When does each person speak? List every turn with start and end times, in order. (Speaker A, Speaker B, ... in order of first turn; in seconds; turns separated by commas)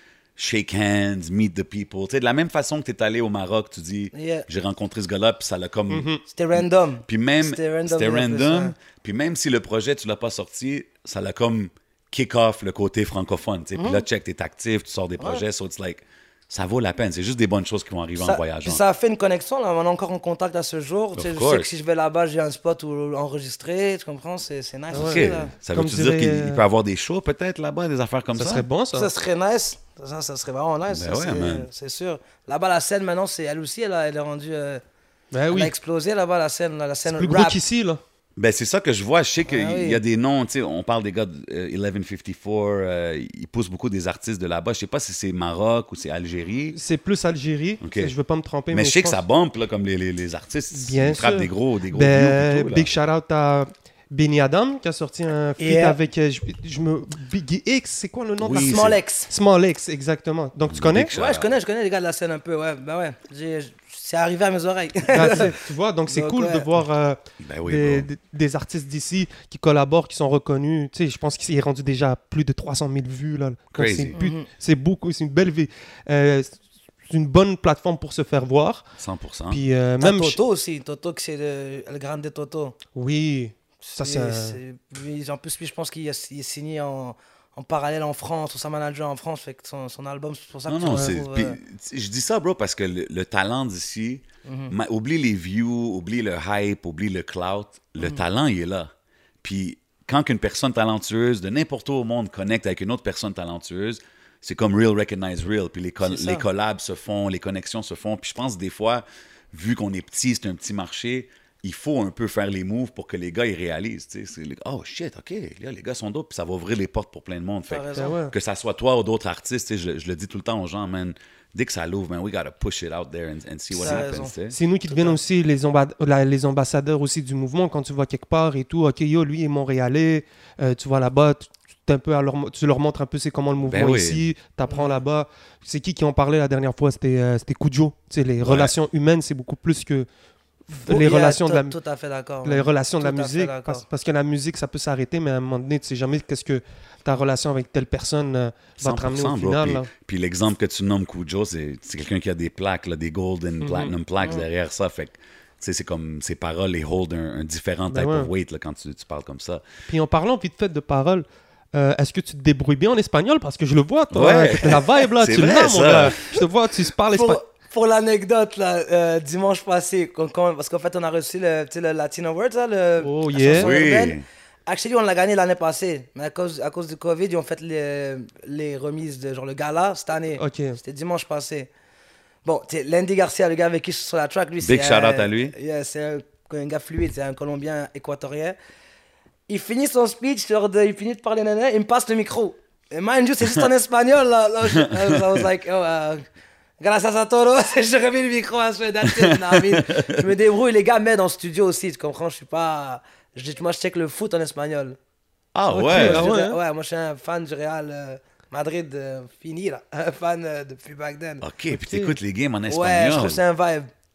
Speaker A: 0.3-6.1, Speaker B: 4.1-4.5, Speaker C: 5.9-6.2, Speaker B: 6.3-8.7, Speaker A: 7.0-18.8, Speaker B: 13.8-14.1, Speaker B: 15.2-15.4, Speaker B: 18.2-25.5, Speaker A: 21.1-21.7, Speaker C: 24.9-26.6, Speaker A: 24.9-28.7, Speaker C: 28.4-29.1, Speaker B: 28.9-34.8, Speaker A: 30.9-31.7, Speaker C: 35.3-35.7, Speaker B: 35.5-37.6, Speaker C: 37.1-38.0, Speaker A: 38.4-46.8, Speaker B: 39.4-40.0, Speaker C: 46.7-49.2, Speaker A: 47.8-48.1, Speaker A: 48.7-52.9, Speaker C: 50.7-61.1, Speaker B: 55.6-56.0, Speaker A: 58.4-59.0, Speaker B: 58.5-59.3, Speaker A: 60.7-61.5, Speaker B: 61.1-66.7, Speaker C: 65.1-76.5, Speaker A: 67.4-68.1, Speaker A: 73.7-74.2, Speaker B: 74.1-74.5, Speaker C: 77.1-78.9, Speaker A: 79.0-79.6, Speaker C: 79.5-80.4, Speaker B: 80.0-82.8, Speaker C: 82.9-84.6, Speaker B: 83.9-91.6, Speaker A: 90.7-98.9, Speaker B: 94.4-94.7, Speaker A: 99.4-124.6, Speaker B: 106.0-106.4, Speaker B: 117.7-118.2, Speaker C: 118.0-118.3, Speaker B: 123.7-124.3, Speaker C: 123.8-140.1, Speaker B: 124.9-125.2, Speaker A: 133.6-134.2, Speaker B: 134.7-135.0, Speaker A: 138.4-138.7, Speaker C: 140.7-141.7, Speaker B: 140.7-143.8, Speaker C: 142.4-149.9, Speaker A: 148.8-159.6, Speaker C: 153.6-153.9, Speaker C: 157.9-158.3, Speaker C: 159.9-167.4, Speaker A: 164.1-166.2, Speaker B: 167.1-181.7, Speaker C: 173.0-173.7, Speaker A: 173.5-174.2, Speaker C: 180.4-180.8, Speaker B: 182.4-188.6, Speaker A: 184.6-185.5, Speaker B: 189.5-196.2, Speaker A: 194.7-195.4, Speaker B: 196.8-205.0, Speaker A: 199.0-200.2, Speaker A: 205.5-206.3, Speaker B: 205.7-211.4, Speaker C: 205.8-206.6, Speaker A: 211.4-213.4, Speaker C: 211.7-212.2, Speaker B: 212.7-213.9